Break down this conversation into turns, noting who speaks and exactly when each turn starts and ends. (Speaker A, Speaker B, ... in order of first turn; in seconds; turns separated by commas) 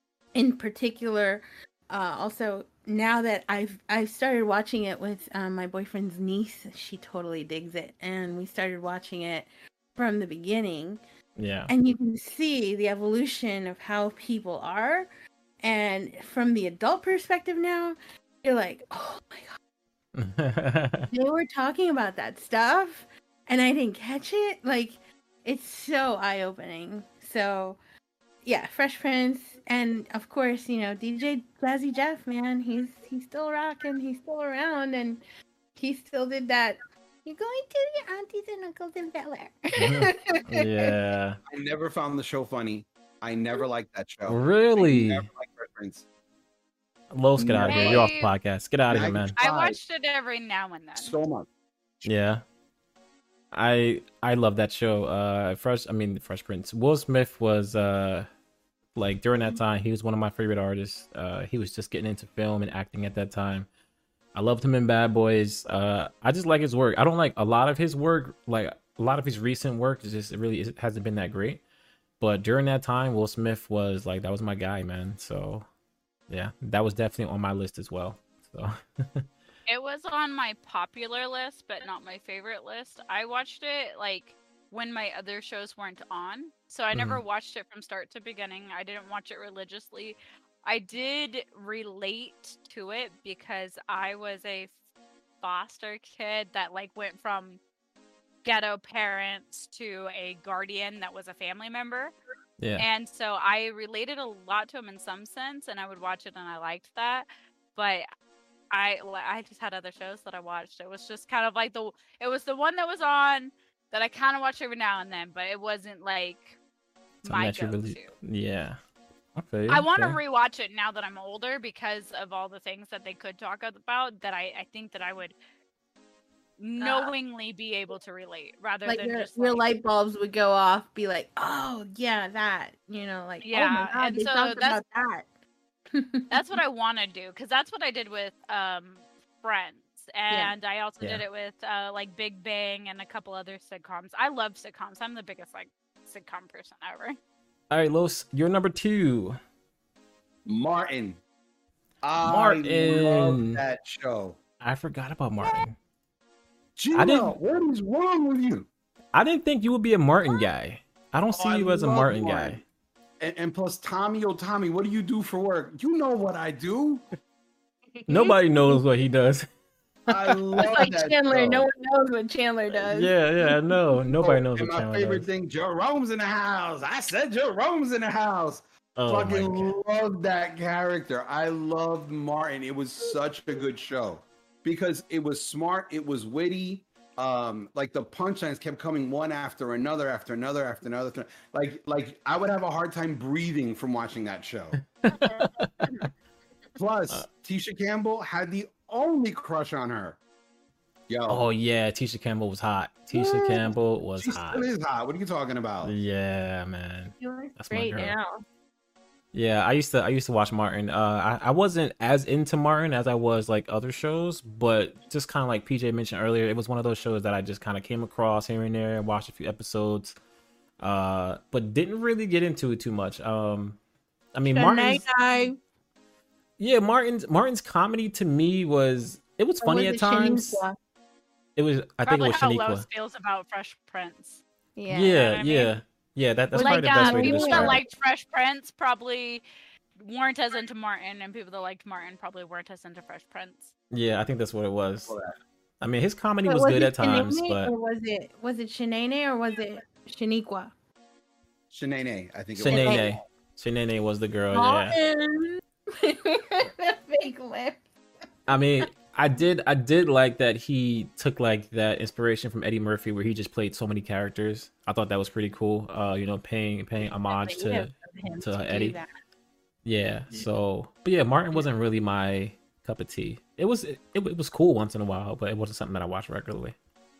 Speaker A: 0.3-11.0, Speaker B: 11.4-11.7, Speaker A: 11.7-15.1, Speaker A: 15.6-19.6, Speaker B: 20.1-21.1, Speaker A: 21.1-27.8, Speaker A: 28.4-35.2, Speaker A: 35.8-40.9, Speaker B: 39.8-41.4, Speaker C: 41.5-46.0, Speaker B: 44.3-45.3, Speaker B: 47.1-49.4, Speaker C: 47.4-48.1, Speaker D: 47.6-48.3, Speaker C: 48.9-49.8, Speaker D: 49.4-51.1, Speaker C: 51.0-51.5, Speaker B: 52.0-52.4, Speaker B: 53.5-58.3, Speaker B: 59.0-63.7, Speaker B: 64.3-71.6, Speaker B: 72.2-75.7, Speaker B: 76.3-79.3, Speaker D: 79.7-94.7, Speaker B: 86.9-87.2, Speaker D: 95.4-97.6, Speaker D: 98.5-102.2, Speaker B: 102.6-102.9, Speaker D: 102.8-108.1, Speaker D: 108.7-116.6, Speaker D: 117.2-118.1, Speaker B: 117.2-118.8, Speaker B: 119.3-120.2, Speaker D: 119.7-125.4, Speaker D: 126.6-129.6, Speaker A: 126.8-127.1, Speaker A: 128.9-135.3, Speaker D: 133.4-134.8, Speaker A: 135.9-136.4, Speaker D: 136.3-147.2, Speaker B: 147.7-149.4, Speaker C: 150.4-151.2, Speaker C: 152.0-154.4, Speaker B: 152.2-153.6, Speaker B: 154.6-155.8, Speaker C: 156.8-158.7, Speaker B: 156.9-157.3, Speaker B: 159.1-162.6, Speaker C: 161.3-162.6, Speaker C: 163.2-167.0, Speaker A: 168.0-168.8, Speaker B: 168.1-169.5, Speaker C: 170.1-171.7, Speaker A: 170.6-173.7, Speaker B: 172.9-175.2, Speaker C: 174.2-194.8, Speaker B: 179.0-179.7, Speaker B: 195.0-195.7, Speaker C: 196.8-200.2, Speaker C: 201.1-201.5, Speaker B: 201.3-204.7, Speaker A: 203.1-203.7, Speaker C: 204.2-205.9, Speaker B: 205.8-208.2, Speaker A: 207.2-208.4, Speaker B: 209.3-220.2, Speaker B: 220.8-223.8, Speaker B: 224.3-225.1, Speaker A: 224.5-225.6, Speaker B: 226.6-230.6, Speaker A: 229.6-230.8, Speaker B: 231.6-232.8, Speaker D: 232.1-234.4, Speaker A: 234.8-235.2, Speaker B: 234.9-237.8, Speaker D: 235.1-235.7, Speaker A: 236.5-237.8, Speaker D: 236.5-239.4, Speaker D: 240.0-243.7, Speaker B: 243.9-245.2, Speaker C: 245.1-245.4, Speaker B: 245.8-247.7, Speaker A: 246.4-250.7, Speaker C: 251.7-253.2, Speaker B: 252.6-255.0, Speaker A: 252.7-253.1, Speaker A: 254.5-257.8, Speaker B: 258.5-269.0, Speaker A: 267.1-269.1, Speaker B: 269.9-276.8